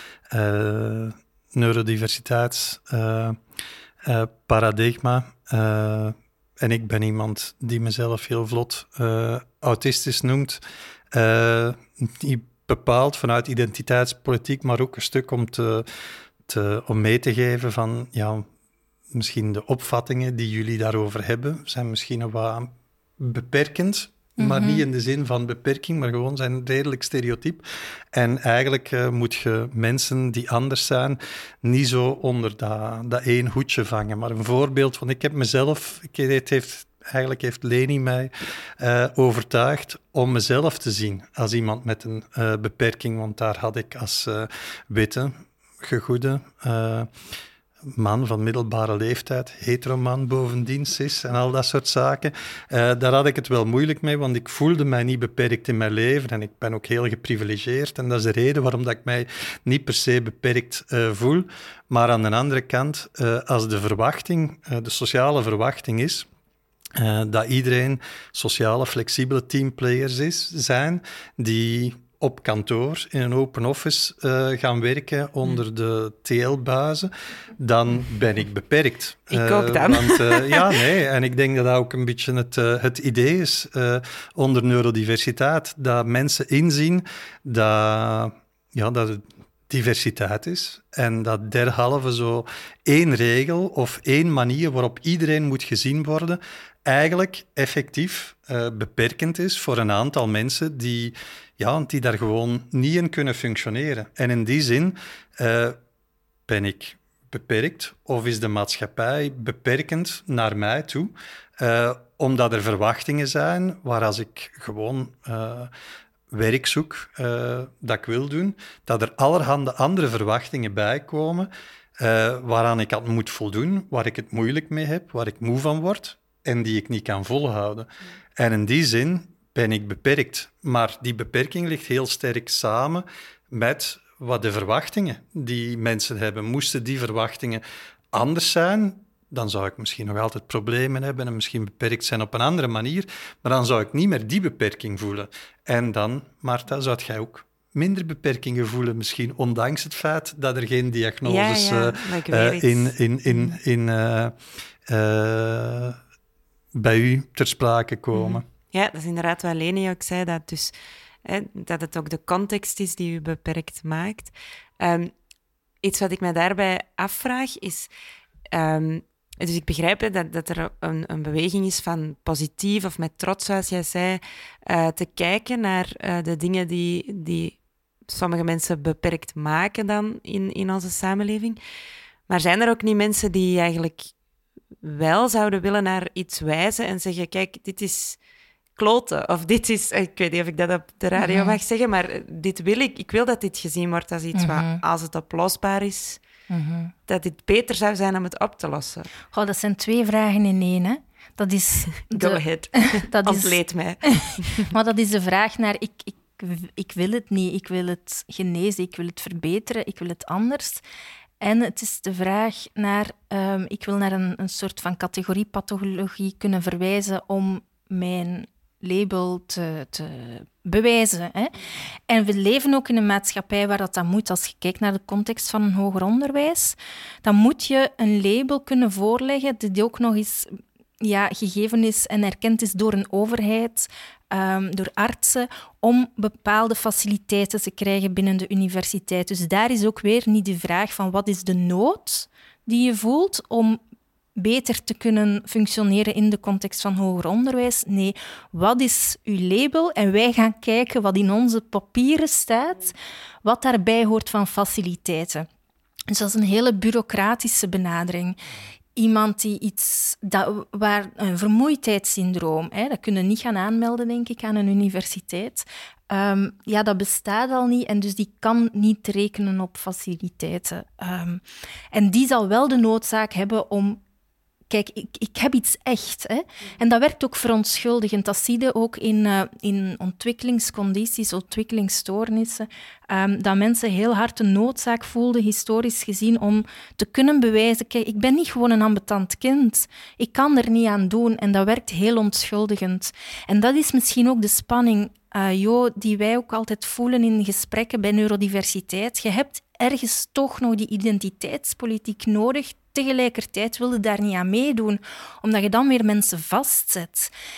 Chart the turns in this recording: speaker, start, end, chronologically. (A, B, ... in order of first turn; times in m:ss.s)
0:00.3-0:03.4 A
0:04.0-0:10.6 A
0:11.1-0:15.9 A
0:16.5-0:18.5 A
0:19.1-0:47.1 A
0:24.4-0:24.8 B
0:47.9-1:06.3 A
1:07.0-1:45.8 A
1:19.3-1:20.9 C
1:46.5-1:55.7 A
1:56.3-2:17.6 A
2:18.1-2:34.4 A
2:31.3-2:33.6 C
2:34.9-2:36.0 A
2:36.7-2:38.4 A
2:38.1-2:45.1 C
2:45.8-2:47.9 C
2:48.5-3:01.6 C
3:02.3-3:04.1 C
3:04.8-3:08.2 C
3:08.8-3:16.2 C
3:11.2-3:11.6 B
3:14.4-3:14.8 B
3:16.5-3:16.9 B
3:17.1-3:19.1 C
3:19.3-3:30.8 B
3:22.1-3:24.7 C
3:31.4-3:41.6 B
3:42.1-4:03.8 B
4:04.4-4:15.5 B
4:16.1-4:18.4 B
4:19.0-4:34.0 B
4:34.7-5:07.3 B